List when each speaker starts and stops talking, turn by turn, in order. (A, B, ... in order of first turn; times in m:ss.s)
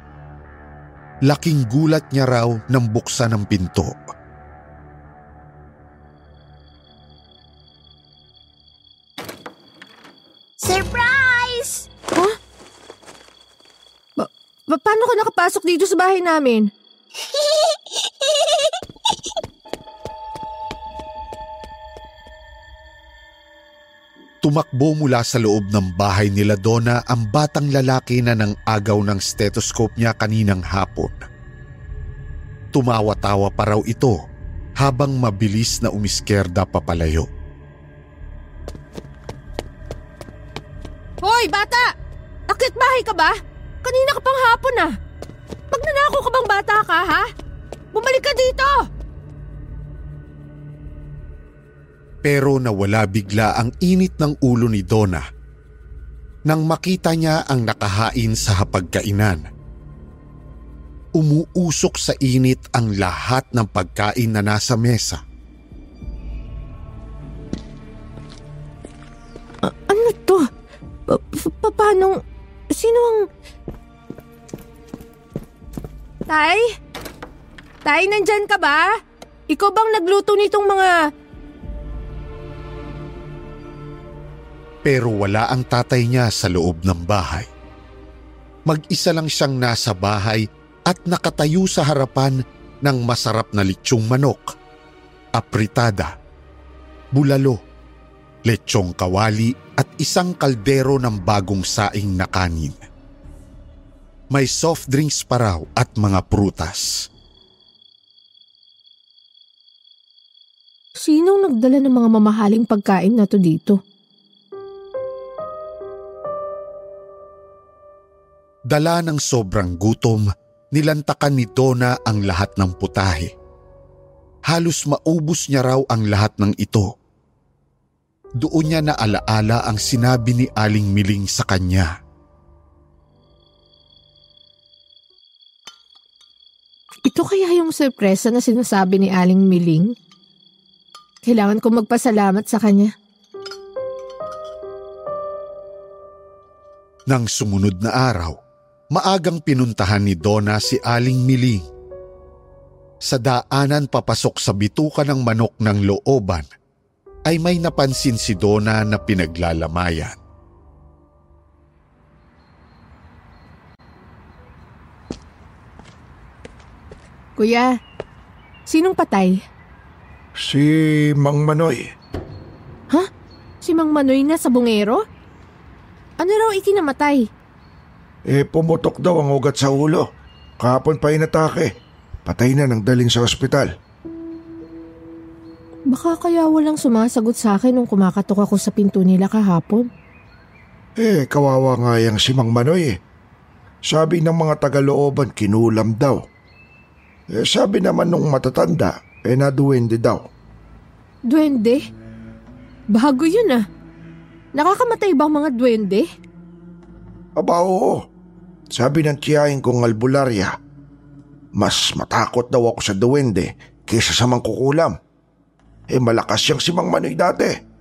0:01.3-0:04.0 A
0:10.6-0:11.9 B
0:14.2-0:16.7 C
0:17.2-0:18.7 B
0:24.4-0:31.2 A
0:32.7-0:34.2 A
0:34.8-0:37.3 A
0:41.2-0:41.9 C
0:42.5-0:44.9 C
0:45.7-0:47.3 C
0:47.9-0:48.8 C
0:52.2-0:55.3 A
0:56.5-0:59.5 A
1:01.2-1:05.2 A
1:09.6-1:10.5 C
1:11.1-1:12.2 C
1:12.7-1:13.2 C
1:16.3-1:16.7 C
1:17.8-1:18.9 C
1:19.5-1:21.0 C
1:24.8-1:27.5 A
1:28.7-1:34.6 A
1:35.4-1:36.1 A
1:37.1-1:37.6 A
1:38.5-1:42.8 A
1:44.3-1:47.1 A
1:51.0-1:53.8 C
1:58.7-2:03.3 A
2:04.5-2:06.9 A
2:08.4-2:11.9 A
2:17.1-2:19.9 C
2:21.2-2:22.9 C
2:27.1-2:28.4 A
2:28.9-2:31.7 A
2:33.0-2:36.5 A
2:37.3-2:40.2 A
2:47.4-2:47.8 C
2:48.7-2:49.4 C
2:50.4-2:51.8 D
2:53.6-2:55.0 C
2:56.2-2:57.3 C
2:58.3-3:00.1 D
3:00.6-3:01.7 D
3:02.3-3:03.7 D
3:05.9-3:09.9 C
3:11.0-3:13.0 D
3:13.9-3:16.2 D
3:17.3-3:20.2 D
3:21.3-3:21.8 C
3:22.9-3:23.6 C
3:24.6-3:26.1 C
3:27.4-3:28.0 D
3:28.8-3:30.5 D
3:31.6-3:35.0 D
3:35.9-3:37.6 D